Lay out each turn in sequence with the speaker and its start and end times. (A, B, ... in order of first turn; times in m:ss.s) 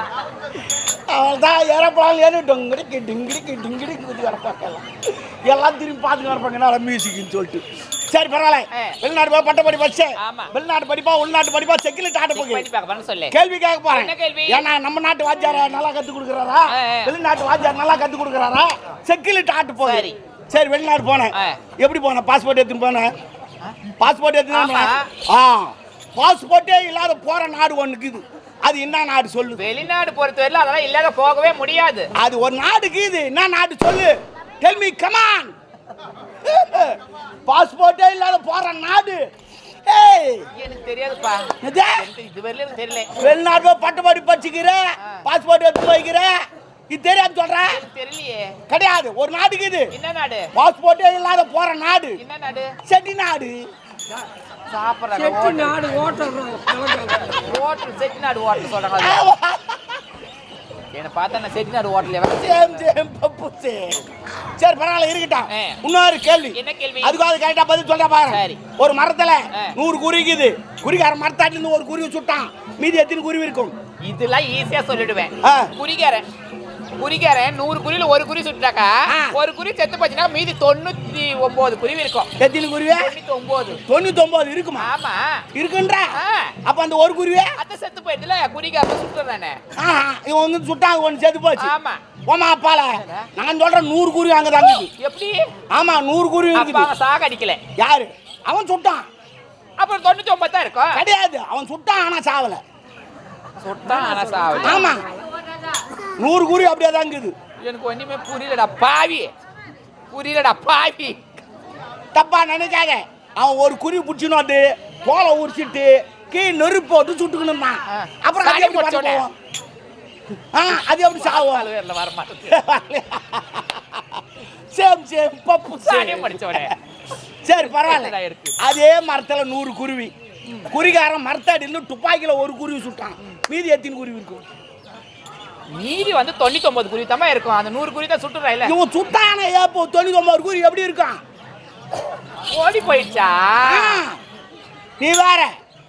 0:00.6-0:12.7 A
0:10.2-0:10.5 B
0:12.3-0:13.4 B
0:13.3-0:23.1 A
0:13.9-0:14.7 B
0:16.7-0:17.1 B
0:19.8-0:20.2 B
0:24.0-0:29.6 A
0:24.5-0:25.1 B
0:29.6-0:32.1 B
0:32.2-0:35.5 A
0:36.4-0:39.2 A
0:39.9-0:40.4 A
0:40.6-0:43.1 B
0:41.6-0:42.1 A
0:43.2-0:46.4 A
0:46.9-0:47.8 A
0:47.7-0:48.6 B
0:48.7-0:49.9 A
0:49.9-0:50.5 B
0:50.6-0:52.2 A
0:52.2-0:52.7 B
0:52.8-0:53.6 A
0:54.7-0:55.8 B
0:55.1-0:57.4 C
0:57.2-0:59.2 B
0:59.0-1:00.0 A
1:00.9-1:02.9 B
1:02.3-1:13.7 A
1:05.5-1:05.8 B
1:06.5-1:07.2 B
1:08.3-1:08.6 B
1:14.0-1:16.2 B
1:15.4-1:15.7 A
1:17.0-1:22.3 B
1:19.1-1:19.4 A
1:22.4-1:23.2 A
1:22.9-1:23.8 B
1:23.9-1:24.9 A
1:24.8-1:25.4 B
1:25.5-1:27.5 A
1:26.2-1:26.6 B
1:27.6-1:29.6 B
1:29.8-1:31.7 A
1:31.6-1:32.0 B
1:32.3-1:34.9 A
1:32.9-1:33.3 B
1:34.6-1:35.5 B
1:35.7-1:36.9 A
1:36.5-1:37.6 B
1:37.8-1:39.1 A
1:39.8-1:41.0 B
1:40.9-1:42.6 A
1:43.6-1:44.8 B
1:43.9-1:45.2 C
1:44.6-1:45.0 A
1:46.2-1:47.4 A
1:47.6-1:49.3 B
1:50.1-1:51.2 B
1:52.1-1:59.3 A
1:57.9-1:59.2 B
2:00.5-2:01.7 A
2:01.2-2:02.6 B
2:02.5-2:06.8 A
2:05.8-2:06.7 B
2:07.4-2:10.1 A
2:07.6-2:08.5 B
2:10.7-2:14.4 A
2:15.7-2:18.8 B
2:18.6-2:21.2 A
2:22.5-2:24.0 B
2:23.6-2:24.2 A
2:25.0-2:25.5 A